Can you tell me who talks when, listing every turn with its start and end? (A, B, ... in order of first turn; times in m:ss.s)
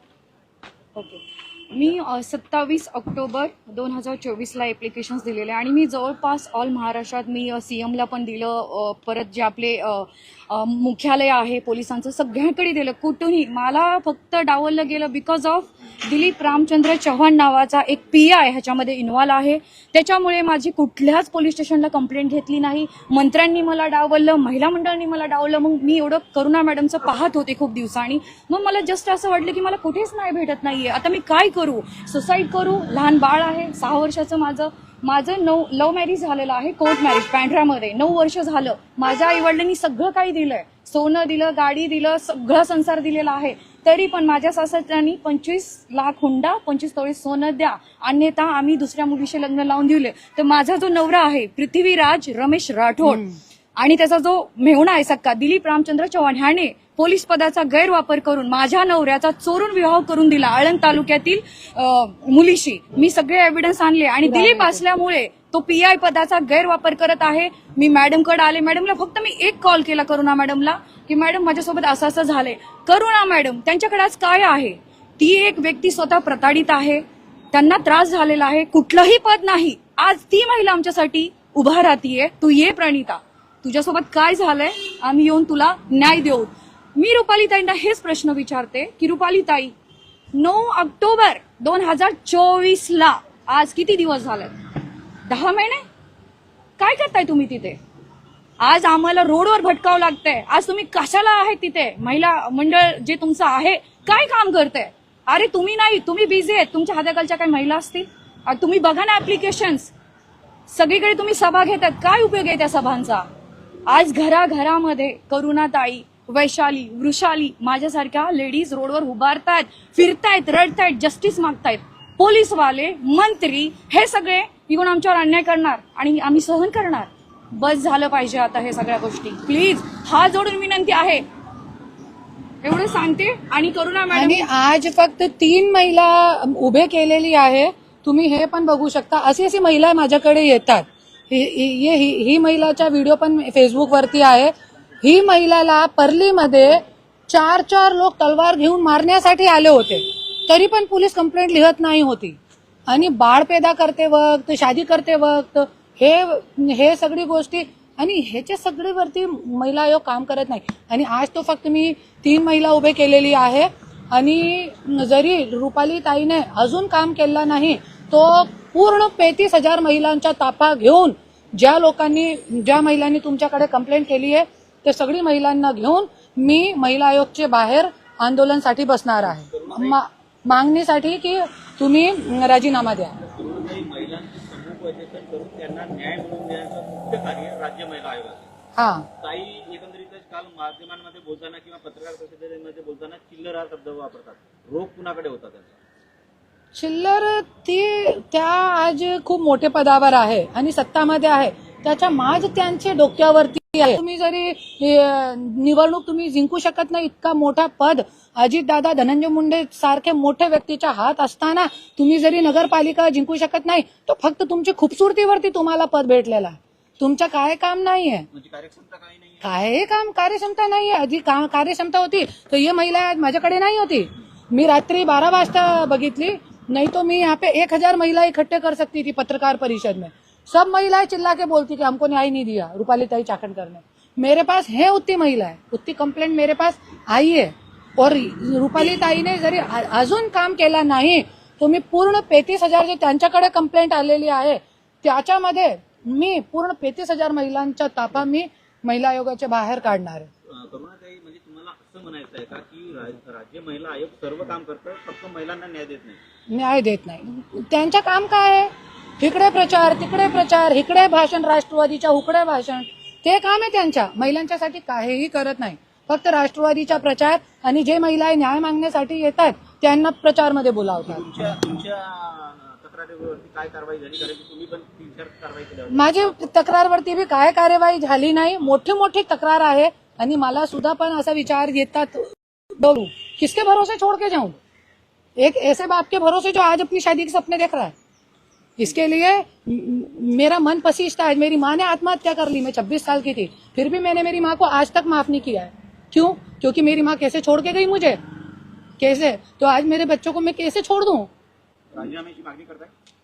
0:00.9-0:53.2 A
0:53.0-0:53.4 B
0:53.8-1:29.7 A
1:04.2-1:04.8 B
1:30.3-1:34.7 A
1:35.2-1:35.8 A
1:36.8-1:37.8 A
1:38.6-1:49.9 A
1:50.7-1:53.2 A
1:53.9-2:11.2 A
2:12.6-2:14.4 A
2:14.1-2:32.4 B
2:32.9-3:03.2 B
2:59.3-3:00.0 C
3:03.2-3:08.5 C
3:08.8-3:09.1 B
3:09.2-3:15.7 C
3:16.7-3:38.3 B
3:38.3-3:39.4 C
3:39.4-4:10.3 B
4:10.5-4:16.2 C
4:16.5-4:31.2 B
4:31.0-4:36.5 C
4:35.9-4:44.6 B
4:45.4-4:47.9 B
4:48.8-4:58.2 B
4:59.0-5:01.3 B
5:01.9-5:02.9 C